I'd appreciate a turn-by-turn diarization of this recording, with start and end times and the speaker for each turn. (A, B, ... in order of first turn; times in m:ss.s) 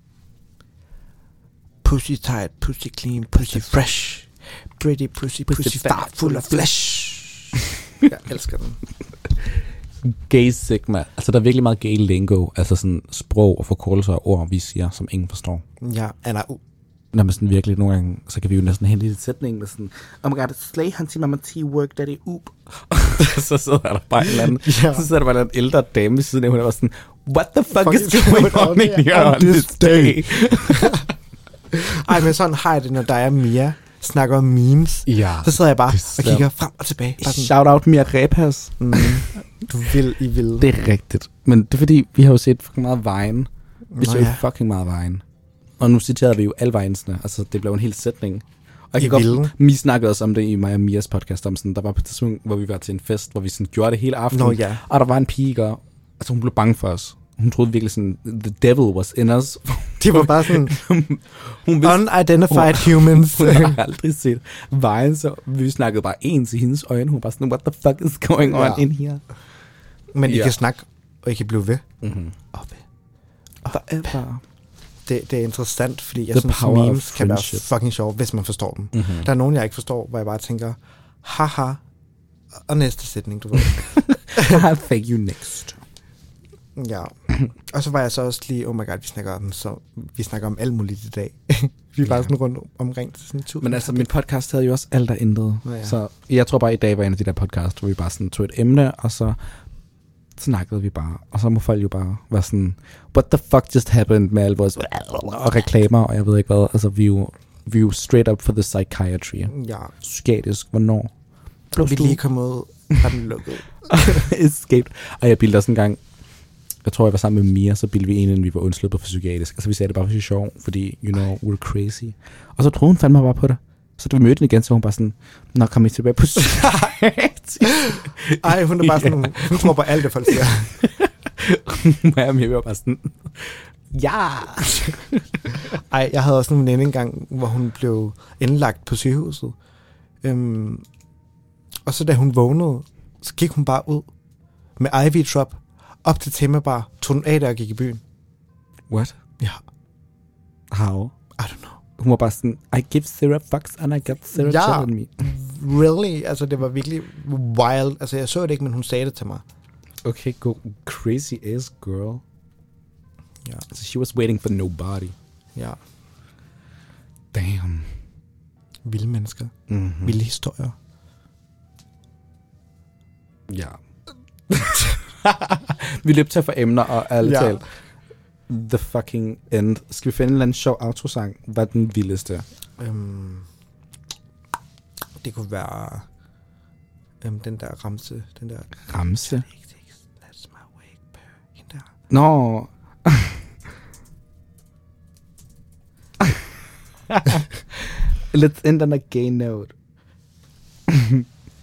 0:01.8-0:08.8 A
0:05.5-0:07.0 B
0:10.0-0:15.6 B
0:15.8-0:16.6 A
0:17.1-0:31.1 B
0:24.2-0:25.1 A
0:27.7-0:31.1 A
0:31.7-0:37.5 A
0:35.0-0:36.5 B
0:37.2-0:39.2 B
0:38.8-0:40.7 A
0:40.6-0:45.2 B
0:43.9-0:44.4 A
0:45.8-1:09.2 B
0:49.0-0:49.5 A
0:54.3-0:54.8 A
1:00.0-1:00.8 A
1:01.8-1:03.8 A
1:08.4-1:08.8 A
1:10.1-1:11.8 A
1:10.2-1:10.6 B
1:12.0-1:12.4 B
1:12.5-1:12.8 A
1:13.6-1:14.4 B
1:15.0-1:21.8 A
1:16.3-1:17.6 B
1:18.9-1:19.3 B
1:22.6-1:24.6 A
1:23.6-1:25.8 B
1:26.7-1:34.1 A
1:33.6-1:39.4 B
1:35.6-1:36.0 A
1:40.4-1:51.1 B
1:49.5-1:49.9 A
1:51.7-1:52.2 B
1:51.8-1:54.2 A
1:53.9-1:56.0 B
1:56.8-2:15.6 B
2:07.8-2:10.8 A
2:15.7-2:19.6 A
2:20.2-2:20.8 A
2:21.8-2:24.1 A
2:24.8-2:28.0 A
2:28.9-2:29.2 B
2:30.7-2:31.1 B
2:31.4-2:31.8 A
2:32.0-2:35.2 B
2:34.3-2:39.4 A
2:40.0-2:42.2 B
2:43.7-2:45.1 B
2:45.5-2:45.8 A
2:47.3-2:47.9 B
2:48.8-2:50.7 A
2:49.7-2:50.2 B
2:53.5-2:53.8 B
2:54.5-2:57.6 B
2:57.2-2:57.6 A
2:58.5-3:02.4 B
3:02.8-3:03.5 A
3:05.2-3:06.0 A
3:07.2-3:11.9 A
3:08.9-3:09.4 B
3:12.1-3:13.4 B
3:17.1-3:19.7 B
3:20.9-3:21.2 B